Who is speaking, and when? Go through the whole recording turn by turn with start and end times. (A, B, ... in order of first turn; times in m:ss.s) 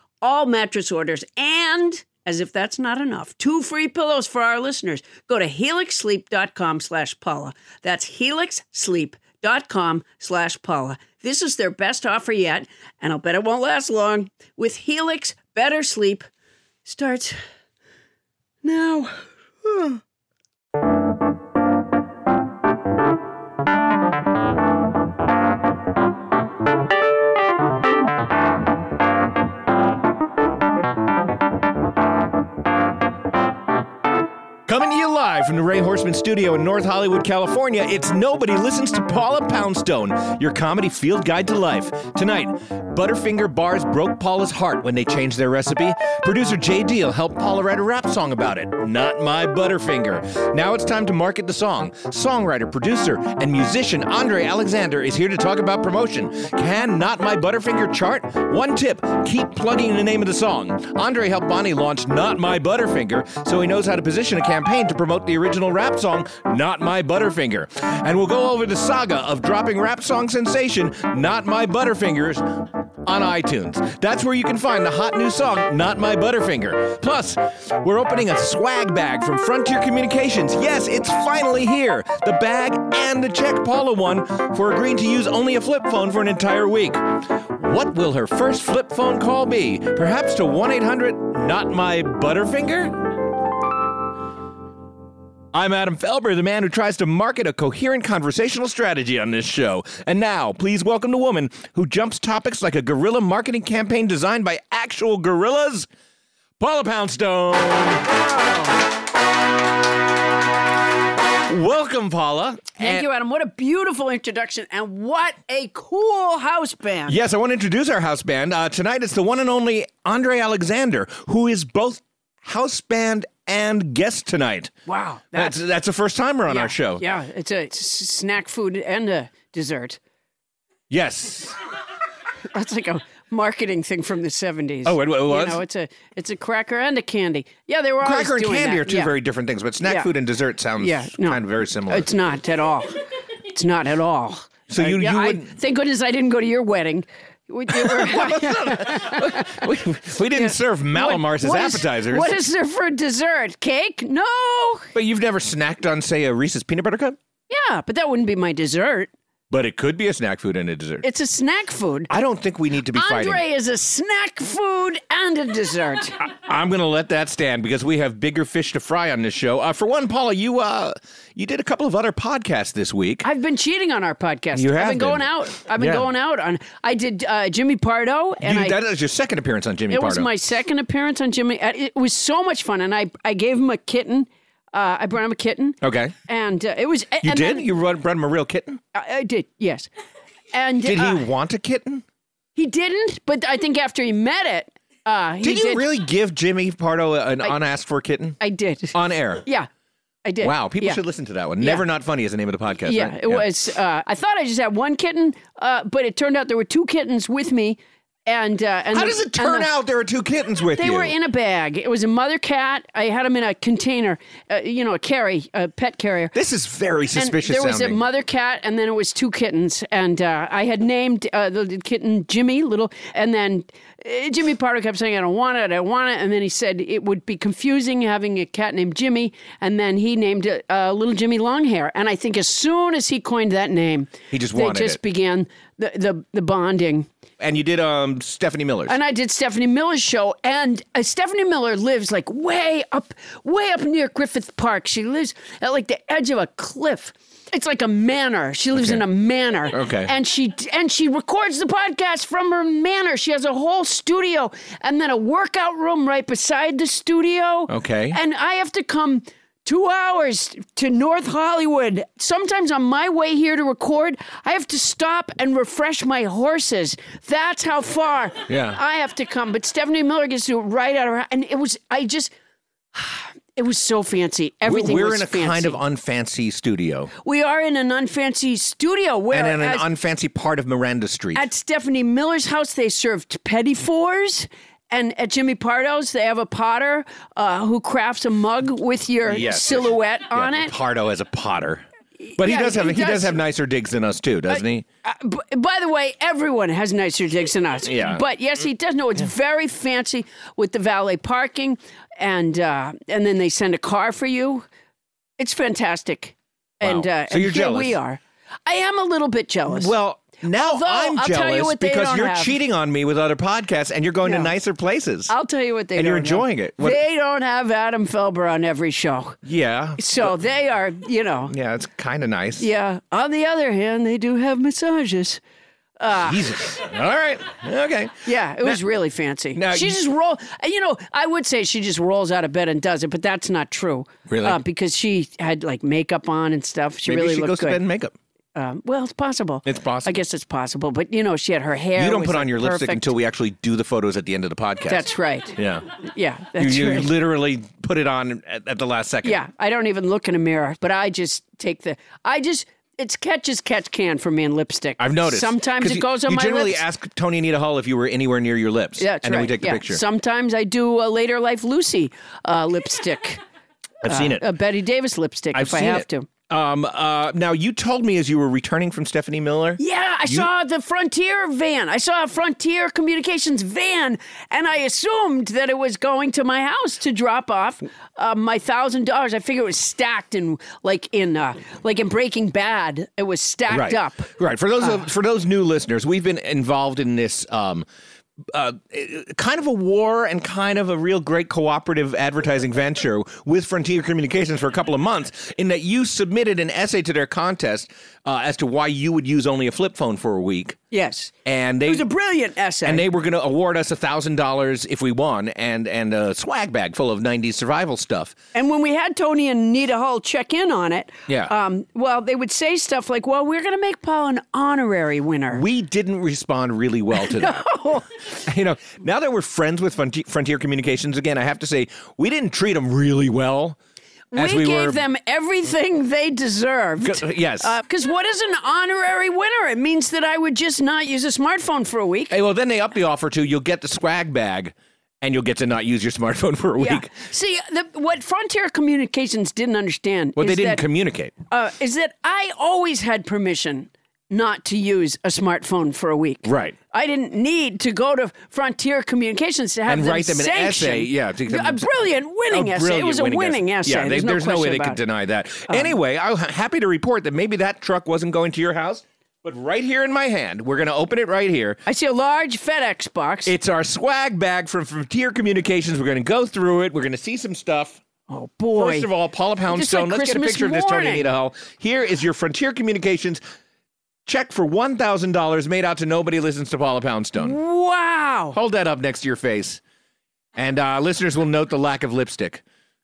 0:00.2-0:16.3 A
0:16.8-0:17.4 A
0:18.6-0:20.0 A
0:34.7-1:33.0 B
1:35.5-1:45.9 B
1:46.6-1:48.1 B
1:48.1-1:48.8 A
1:51.5-1:53.1 B
1:52.8-1:57.2 A
1:57.1-2:04.7 B
2:04.9-2:05.6 A
2:05.3-2:07.0 B
2:06.5-2:10.0 A
2:10.9-2:11.6 B
2:12.5-2:19.1 A
2:14.8-2:15.6 B
2:18.0-2:22.1 B
2:19.8-2:20.1 A
2:20.8-2:29.6 A
2:24.7-2:25.6 B
2:27.7-2:32.3 B
2:30.3-2:34.9 A
2:35.0-2:37.2 B
2:37.5-2:39.1 A
2:39.5-2:41.0 B
2:41.0-2:42.1 A
2:42.1-2:43.4 B
2:42.9-2:46.2 A
2:46.2-2:53.3 B
2:53.2-2:58.8 A
2:54.5-2:56.1 B
2:58.4-3:00.3 B
2:59.9-3:07.6 A
3:05.8-3:06.1 B
3:07.2-3:08.8 B
3:08.9-3:09.9 A
3:10.5-3:11.2 A
3:10.8-3:12.0 B
3:12.6-3:15.9 A
3:15.4-3:18.4 B
3:18.4-3:19.7 A
3:18.9-3:19.4 B
3:20.2-3:21.0 A
3:20.4-3:23.5 B
3:21.6-3:21.8 A
3:22.9-3:29.7 A
3:28.9-3:31.2 B
3:30.8-3:36.3 A
3:36.3-3:38.0 B
3:37.2-3:57.1 A
3:54.3-3:55.0 B
3:57.4-3:59.0 B
3:58.9-4:32.3 A
4:08.7-4:09.0 B
4:09.7-4:10.1 B
4:17.7-4:18.2 B
4:28.5-4:28.8 B
4:32.9-4:35.8 A
4:34.6-4:37.1 B
4:37.2-4:39.9 A
4:39.3-4:41.5 B
4:41.3-4:50.7 A
4:49.2-4:51.8 B
4:52.2-4:53.4 A
4:52.4-4:54.9 B
4:54.5-5:04.7 A
4:57.8-4:58.2 B
5:05.4-5:09.9 A
5:06.8-5:08.0 B
5:09.7-5:15.3 B
5:10.5-5:12.6 A
5:14.2-5:14.5 A
5:15.3-5:19.4 A
5:16.0-5:17.0 B
5:19.4-5:20.3 B
5:20.0-5:21.5 A
5:21.5-5:22.7 B
5:22.6-5:25.4 A
5:26.0-5:26.4 A
5:26.1-5:28.8 B
5:28.2-5:37.8 A
5:29.6-5:30.0 B
5:34.3-5:34.6 B
5:37.1-5:38.2 B
5:38.6-5:43.1 A
5:39.6-5:40.2 B
5:42.0-5:45.8 B
5:44.9-5:47.1 A
5:46.6-5:49.4 B
5:49.2-5:56.8 A
5:55.0-6:00.0 B
5:59.0-6:03.4 A
6:04.0-6:04.5 B
6:04.1-6:06.3 A
6:05.5-6:10.5 B
6:09.8-6:24.3 A
6:23.7-6:27.9 B
6:28.5-6:40.8 B
6:40.9-6:41.3 A
6:41.4-6:42.1 B
6:41.8-6:43.1 A
6:42.8-6:48.4 B
6:48.5-6:55.6 A
6:51.3-6:51.5 B
6:55.5-7:03.8 B
6:57.2-6:58.1 A
7:04.3-7:12.4 A
7:04.3-7:05.0 B
7:07.0-7:07.7 B
7:12.3-7:17.1 B
7:16.8-7:20.8 A
7:20.4-7:21.3 B
7:21.5-7:35.0 A
7:26.4-7:26.8 B
7:29.9-7:31.9 B
7:32.5-7:41.8 B
7:35.7-7:36.0 A
7:41.9-7:43.5 A
7:43.5-7:48.0 B
7:48.3-7:49.1 A
7:48.8-7:53.4 B
7:49.7-7:51.3 A
7:54.3-7:57.6 B
7:57.4-7:58.6 A
7:58.5-7:59.8 B
8:00.6-8:02.6 B